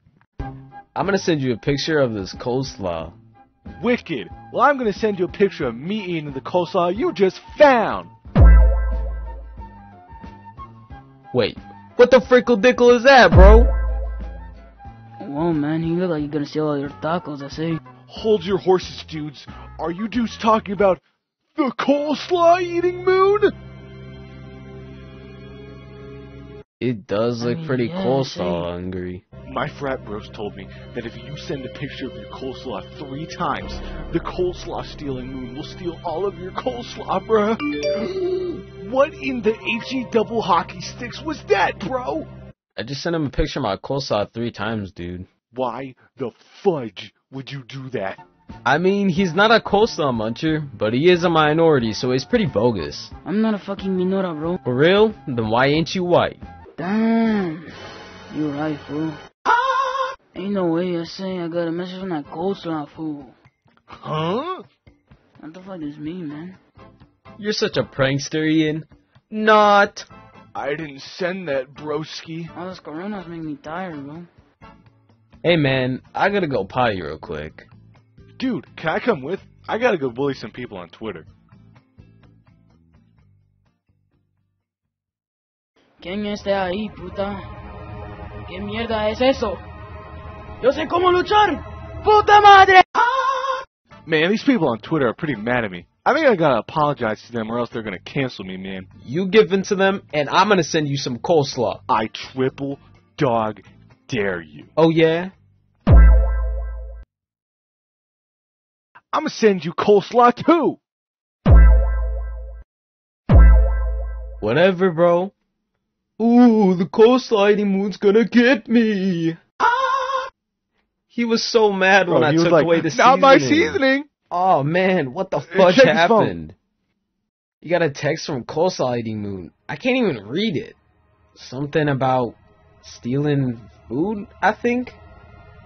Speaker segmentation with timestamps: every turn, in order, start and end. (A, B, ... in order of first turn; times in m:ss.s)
0:01.0-0:03.2 A
0:03.8-0:08.1 B
0:11.3-0:13.7 A
0:15.2-0:17.8 C
0:18.1-0:21.0 B
0:21.5-0:23.5 B
0:26.8-0:29.2 A
0:27.4-0:28.7 C
0:29.4-0:42.3 B
0:42.8-0:45.3 A
0:45.5-0:48.2 B
0:48.7-0:53.1 A
0:53.2-0:54.6 C
0:54.6-0:56.4 A
0:56.8-0:57.7 C
0:58.3-0:59.2 C
1:00.3-1:03.4 C
1:03.9-1:04.6 B
1:05.4-1:06.6 C
1:07.4-1:10.1 A
1:10.5-1:12.5 B
1:12.5-1:14.3 C
1:15.4-1:17.7 A
1:18.4-1:21.3 B
1:26.0-1:27.5 C
1:28.5-1:29.6 C
1:30.6-1:33.6 C
1:34.1-1:38.9 B
1:39.0-1:41.8 A
1:41.9-1:44.7 B
1:44.8-1:45.3 A
1:49.1-1:50.8 B
1:54.4-1:55.3 A
1:56.2-2:00.0 A
2:01.1-2:06.6 A
2:02.1-2:04.1 B
2:05.5-2:06.4 B
2:07.6-2:10.8 A
2:11.3-2:15.0 A